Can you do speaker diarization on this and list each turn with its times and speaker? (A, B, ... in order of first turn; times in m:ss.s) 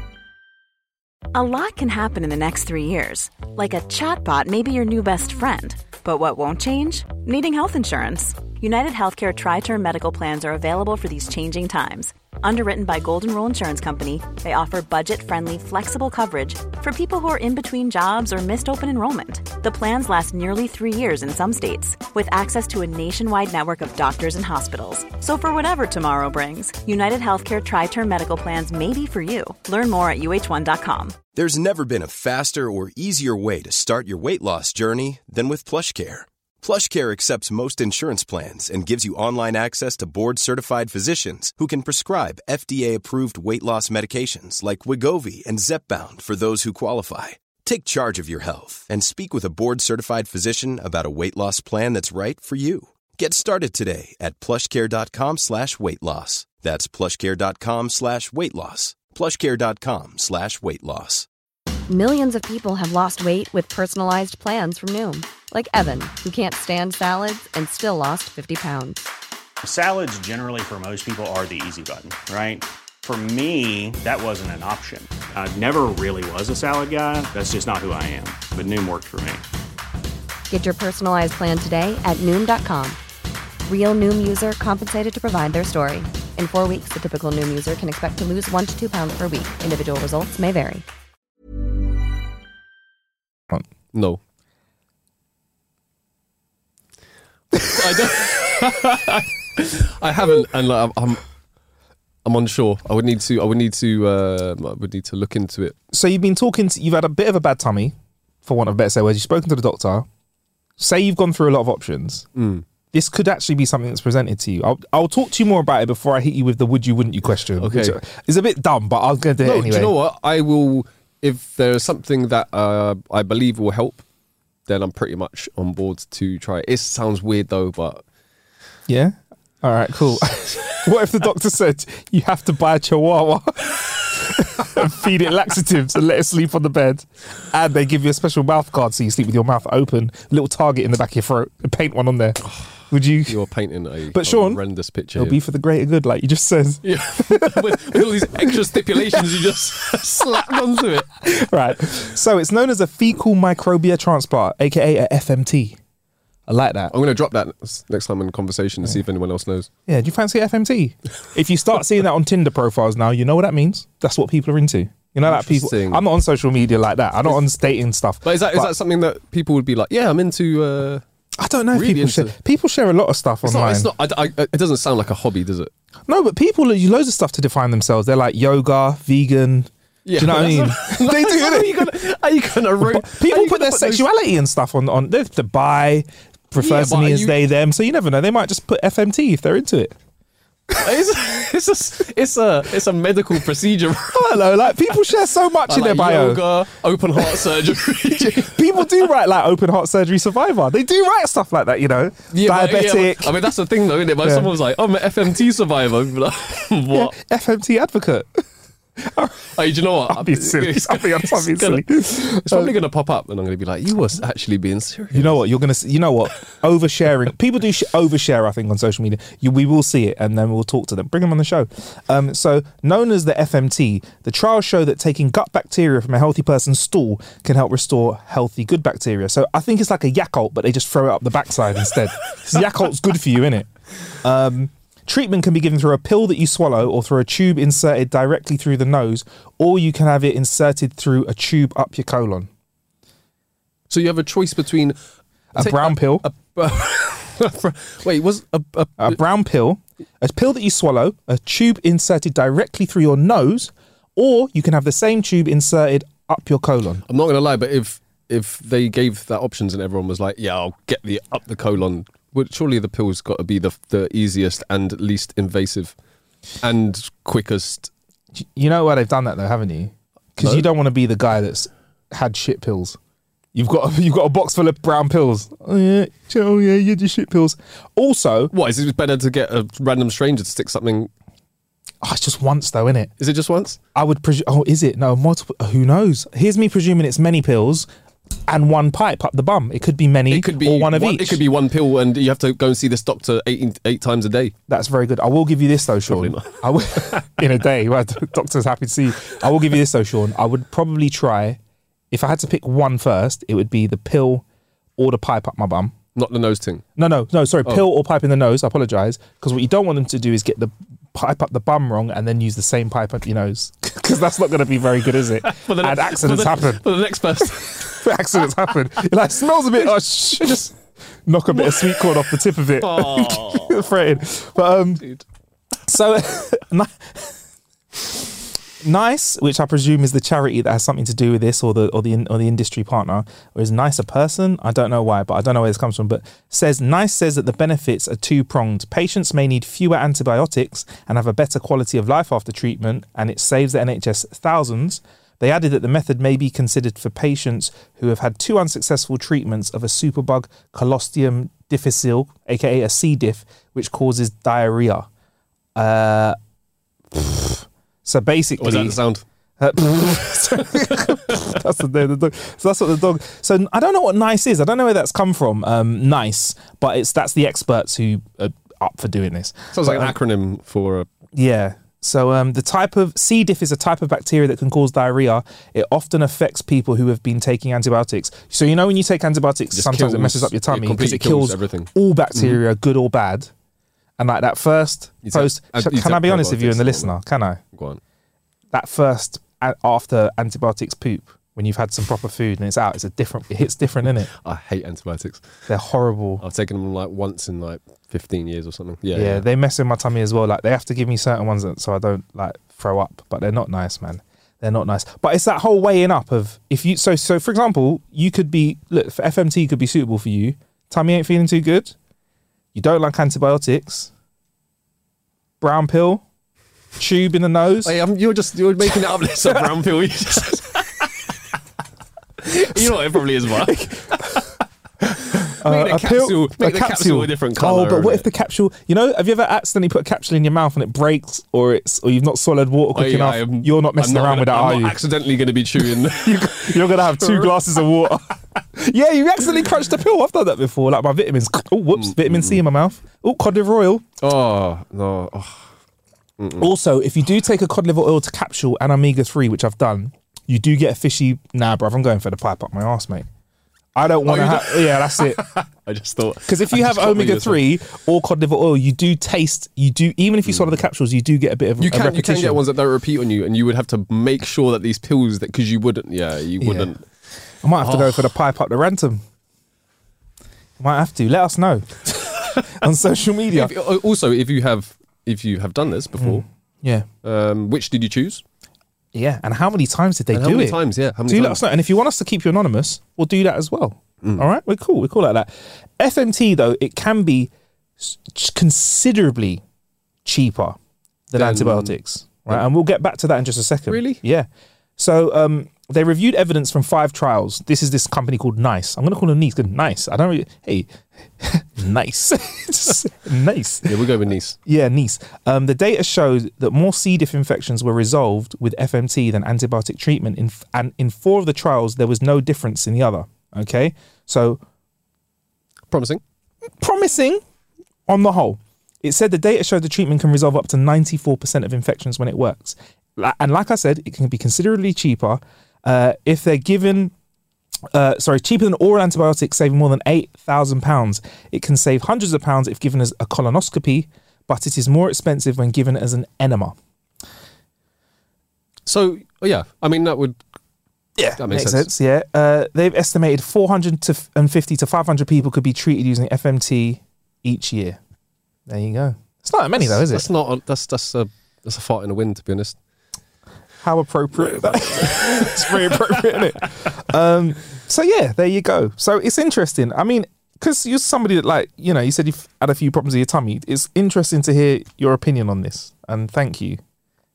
0:01.3-0:31.2 A
0:31.4-1:01.3 B
1:01.9-1:09.1 C
1:09.6-1:19.4 D
1:20.5-1:23.0 C
1:23.6-1:30.8 C
1:33.9-1:34.2 E
1:37.6-1:41.2 E
1:42.2-1:45.8 E
1:45.9-1:50.1 F
1:50.8-1:52.2 F
1:52.4-1:52.6 E
1:52.9-1:59.9 F
1:57.6-1:58.0 E
1:59.4-2:04.0 E
2:04.7-2:08.0 E
2:08.9-2:23.4 F
2:23.3-2:25.4 E
2:24.1-2:24.6 F
2:25.2-2:29.3 F
2:26.8-2:31.2 E
2:30.2-2:30.5 F
2:31.2-2:35.8 F
2:36.5-2:36.9 F
2:36.9-2:39.7 E
2:39.9-2:48.7 F
2:45.2-2:46.0 E
2:48.2-2:51.0 E
2:51.4-2:53.9 F
2:51.7-2:52.4 E
2:53.4-2:55.7 E
2:56.1-3:01.9 F
3:00.0-3:04.1 E
3:02.8-3:10.0 F
3:06.6-3:07.4 E
3:10.8-3:14.4 E
3:14.1-3:16.5 F
3:15.7-3:18.9 E
3:17.2-3:23.4 F
3:22.3-3:27.1 E
3:24.2-3:24.5 F
3:26.9-3:28.4 F
3:29.0-3:29.6 F
3:29.6-3:35.4 E
3:30.1-3:32.7 F
3:35.1-3:53.7 F
3:54.2-4:02.5 F
4:03.9-4:05.0 E
4:05.6-4:06.3 F
4:05.6-4:09.2 E
4:09.0-4:17.0 F
4:17.1-4:26.0 E
4:26.6-4:27.9 E
4:28.4-4:33.0 F
4:30.4-4:30.7 E
4:33.5-4:38.5 F
4:38.5-4:41.1 E
4:42.0-4:43.1 F
4:43.2-4:43.8 E
4:44.0-4:47.9 F
4:48.5-4:51.4 F
4:50.3-4:54.5 E
4:54.7-5:01.6 F
4:56.1-4:57.2 E
5:02.1-5:04.4 F
5:05.0-5:06.0 F
5:06.2-5:06.8 E
5:07.0-5:16.8 F
5:15.4-5:18.1 E
5:17.4-5:20.7 F
5:20.4-5:20.7 E
5:21.3-5:25.0 F
5:21.5-5:22.2 E
5:22.8-5:23.9 E
5:25.9-5:27.3 F
5:28.0-5:28.3 F
5:28.8-5:55.1 F
5:55.8-5:56.4 F
5:57.1-5:59.0 F
5:58.6-5:59.2 E
5:59.6-6:10.2 F
6:00.8-6:01.4 E
6:09.7-6:11.1 E
6:11.3-6:23.5 F
6:19.7-6:22.6 E
6:24.2-6:27.6 F
6:25.2-6:27.2 E
6:27.7-6:28.0 E
6:28.7-6:34.3 F
6:34.4-6:35.5 E
6:35.7-6:36.4 F
6:36.4-6:39.4 E
6:39.1-6:52.0 F
6:52.7-6:54.1 F
6:55.6-6:56.2 F
6:57.0-6:57.9 F
6:57.8-7:01.2 E
7:02.4-7:04.4 E
7:03.6-7:04.5 F
7:05.3-7:08.3 E
7:05.5-7:15.0 F
7:12.9-7:17.6 E
7:16.0-7:24.1 F
7:22.0-7:22.6 E
7:24.2-7:25.7 E
7:26.4-7:26.7 E
7:26.6-7:33.3 F
7:34.0-7:35.4 F
7:34.2-7:37.6 E
7:36.5-7:42.6 F
7:40.5-7:40.8 E
7:41.8-7:47.0 E
7:46.6-7:46.9 F
7:47.6-7:49.2 F
7:47.8-7:48.3 E
7:50.8-7:53.7 F
7:53.5-7:56.4 E
7:56.2-7:57.1 F
7:57.2-7:58.4 E
7:59.1-8:09.6 F
8:00.3-8:01.6 E
8:10.2-8:10.8 F
8:11.3-8:24.0 F
8:11.4-8:12.0 E
8:13.9-8:14.2 E
8:23.9-8:24.6 E
8:24.7-8:34.6 F
8:35.9-8:36.2 E
8:36.8-8:37.4 F
8:38.1-8:47.1 F
8:47.9-8:56.8 F
8:58.9-9:00.4 E
9:01.2-9:08.0 F
9:01.4-9:01.9 E
9:08.7-9:10.3 F
9:09.8-9:12.8 E
9:13.8-9:26.8 F
9:14.5-9:16.4 E